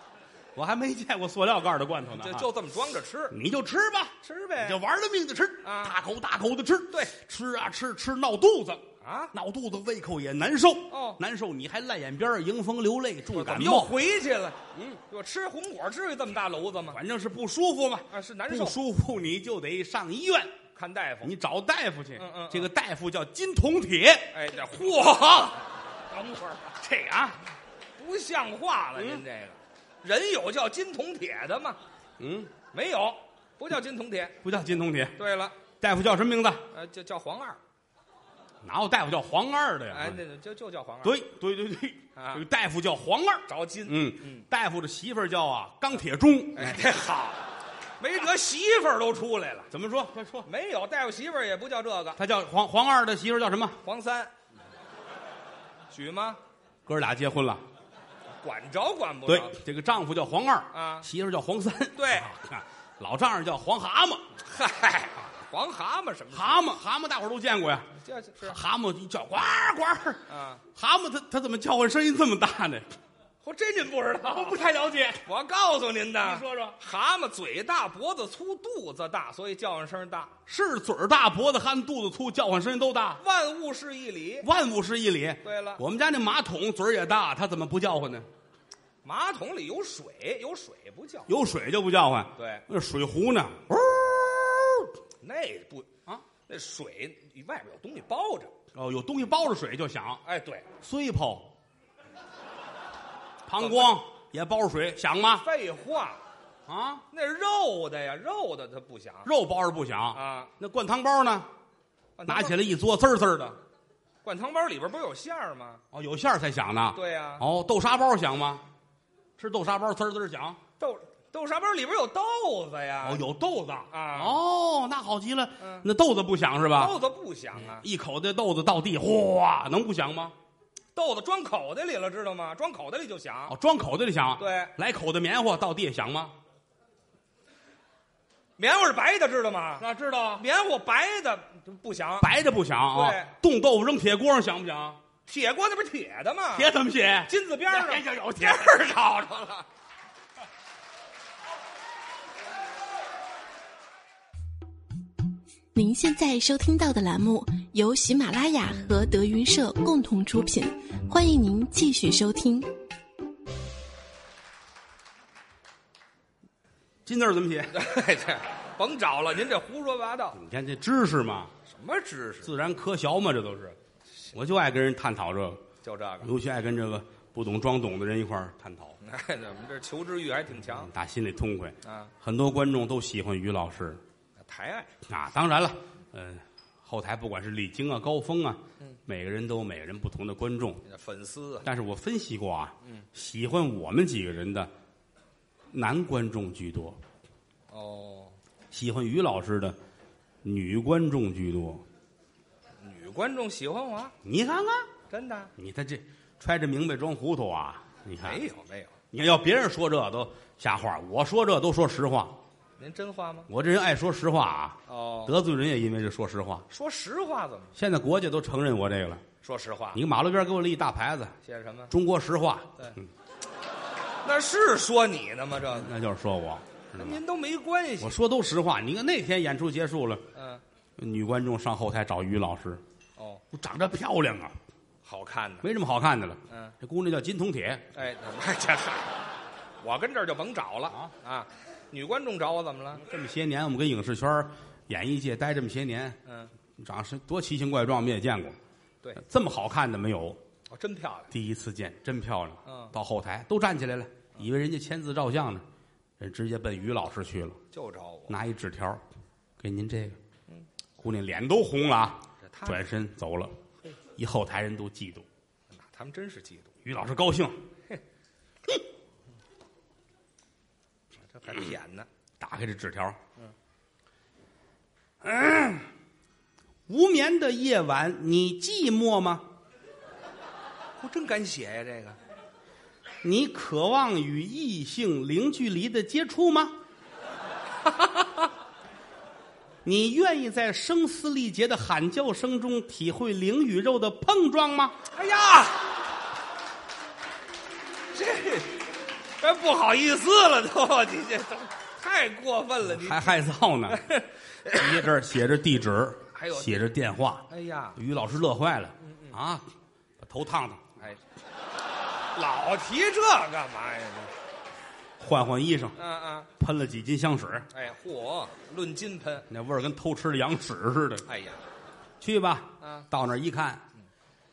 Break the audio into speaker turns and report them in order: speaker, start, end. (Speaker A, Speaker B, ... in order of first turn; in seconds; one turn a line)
Speaker A: 0.5-2.5
Speaker B: 2.1-3.3
Speaker A: 3.3-13.9
Speaker B: 4.2-4.8
Speaker B: 5.6-6.0
Speaker B: 9.0-9.3
Speaker B: 10.9-11.2
Speaker B: 13.3-17.0
Speaker A: 14.7-15.0
Speaker A: 16.9-20.5
Speaker B: 18.1-18.8
Speaker B: 20.7-21.3
Speaker A: 21.2-24.3
Speaker B: 22.2-22.7
Speaker B: 24.3-26.7
Speaker A: 26.8-27.4
Speaker B: 28.0-31.8
Speaker A: 29.0-29.2
Speaker A: 32.2-32.5
Speaker B: 32.7-34.4
Speaker A: 34.4-35.2
Speaker B: 35.1-35.6
Speaker A: 35.8-36.6
Speaker B: 36.7-37.6
Speaker A: 38.6-40.2
Speaker B: 39.9-41.2
Speaker A: 41.0-46.8
Speaker B: 42.1-42.4
Speaker B: 43.5-44.5
Speaker B: 46.5-47.4
Speaker B: 48.0-49.7
Speaker A: 49.7-50.5
Speaker B: 50.4-52.2
Speaker A: 52.1-53.8
Speaker B: 53.8-54.3
Speaker B: 55.9-56.4
Speaker A: 56.9-57.6
Speaker B: 58.4-59.5
Speaker A: 59.2-64.2
Speaker B: 60.7-61.1
Speaker B: 61.9-62.3
Speaker B: 64.4-66.8
Speaker A: 66.3-72.9
Speaker B: 68.0-68.5
Speaker B: 70.3-70.6
Speaker B: 73.4-74.7
Speaker A: 74.3-75.2
Speaker B: 75.2-80.3
Speaker A: 76.2-76.8
Speaker A: 80.5-83.2
Speaker B: 83.2-84.5
Speaker A: 84.4-88.3
Speaker B: 85.4-85.8
Speaker B: 89.0-91.3
Speaker A: 91.3-94.9
Speaker B: 92.3-92.6
Speaker B: 95.2-95.9
Speaker B: 96.5-98.5
Speaker A: 98.7-100.2
Speaker B: 100.2-100.7
Speaker A: 100.8-101.5
Speaker A: 103.5-105.5
Speaker B: 103.6-104.0
Speaker B: 105.3-106.2
Speaker A: 106.7-107.0
Speaker B: 107.1-109.3
Speaker A: 109.2-111.5
Speaker B: 110.1-110.5
Speaker B: 112.2-112.6
Speaker A: 112.3-113.6
Speaker B: 114.2-115.8
Speaker A: 115.9-118.6
Speaker B: 116.9-117.4
Speaker A: 119.4-120.6
Speaker B: 120.8-123.2
Speaker A: 123.0-127.0
Speaker B: 123.9-124.4
Speaker B: 125.6-125.9
Speaker B: 126.7-127.8
Speaker A: 127.7-130.3
Speaker B: 130.9-133.5
Speaker A: 133.5-136.4
Speaker B: 134.4-134.7
Speaker B: 138.6-142.3
Speaker A: 139.8-140.4
Speaker A: 142.2-145.0
Speaker B: 142.9-143.3
Speaker B: 145.2-149.7
Speaker A: 146.5-148.8
Speaker C: 155.7-162.7
Speaker A: 167.0-167.8
Speaker B: 167.7-170.4
Speaker A: 170.3-171.5
Speaker B: 171.6-172.5
Speaker A: 172.4-173.8
Speaker A: 174.3-175.6
Speaker B: 175.8-176.3
Speaker A: 176.2-179.0
Speaker B: 179.0-180.9
Speaker A: 180.7-184.0
Speaker B: 181.8-182.1
Speaker B: 184.4-184.9
Speaker A: 185.1-190.8
Speaker B: 190.8-191.7
Speaker A: 191.6-194.7
Speaker A: 195.7-197.0
Speaker B: 197.7-198.4
Speaker A: 198.7-199.8
Speaker A: 200.4-201.8
Speaker B: 202.8-204.1
Speaker A: 204.2-204.9
Speaker B: 205.1-205.5
Speaker A: 205.6-208.4
Speaker B: 208.2-208.9
Speaker A: 209.1-212.4
Speaker B: 212.8-213.5
Speaker A: 213.5-216.7
Speaker B: 214.9-215.3
Speaker B: 216.7-217.7
Speaker A: 217.7-219.2
Speaker B: 219.4-220.0
Speaker A: 219.9-221.3
Speaker B: 221.4-221.9
Speaker A: 221.9-223.1
Speaker B: 224.2-225.9
Speaker A: 225.7-227.2
Speaker B: 226.9-228.1
Speaker A: 228.0-230.2
Speaker B: 230.3-230.6
Speaker A: 231.0-232.8
Speaker B: 233.2-233.4
Speaker A: 233.5-234.6
Speaker B: 235.0-235.7
Speaker A: 235.6-237.9
Speaker B: 236.5-236.7
Speaker B: 237.9-239.2
Speaker B: 239.8-243.0
Speaker A: 243.0-246.2
Speaker B: 246.2-246.5
Speaker A: 246.8-248.6
Speaker A: 249.2-250.4
Speaker B: 250.7-251.3
Speaker A: 251.3-255.6
Speaker B: 252.6-252.9
Speaker A: 256.2-257.6
Speaker B: 257.7-258.4
Speaker A: 258.3-259.0
Speaker A: 259.6-260.2
Speaker A: 261.0-263.6
Speaker B: 262.4-262.8
Speaker A: 264.1-265.2
Speaker B: 265.7-266.7
Speaker A: 266.8-267.6
Speaker B: 271.3-272.1
Speaker A: 272.4-273.2
Speaker A: 275.2-275.9
Speaker A: 276.9-279.5
Speaker B: 281.0-282.2
Speaker A: 283.2-286.8
Speaker B: 287.9-288.3
Speaker A: 289.8-295.0
Speaker B: 295.1-295.8
Speaker B: 298.1-298.8
Speaker B: 299.4-305.1
Speaker A: 302.8-304.0
Speaker A: 304.7-311.0
Speaker B: 306.3-306.9
Speaker B: 307.5-308.0
Speaker B: 309.0-309.4
Speaker B: 312.3-314.3
Speaker A: 315.2-316.0
Speaker B: 315.9-316.5
Speaker A: 316.6-317.7
Speaker B: 317.7-319.5
Speaker A: 319.5-321.2
Speaker B: 321.2-321.6
Speaker A: 322.2-323.8
Speaker B: 322.8-323.1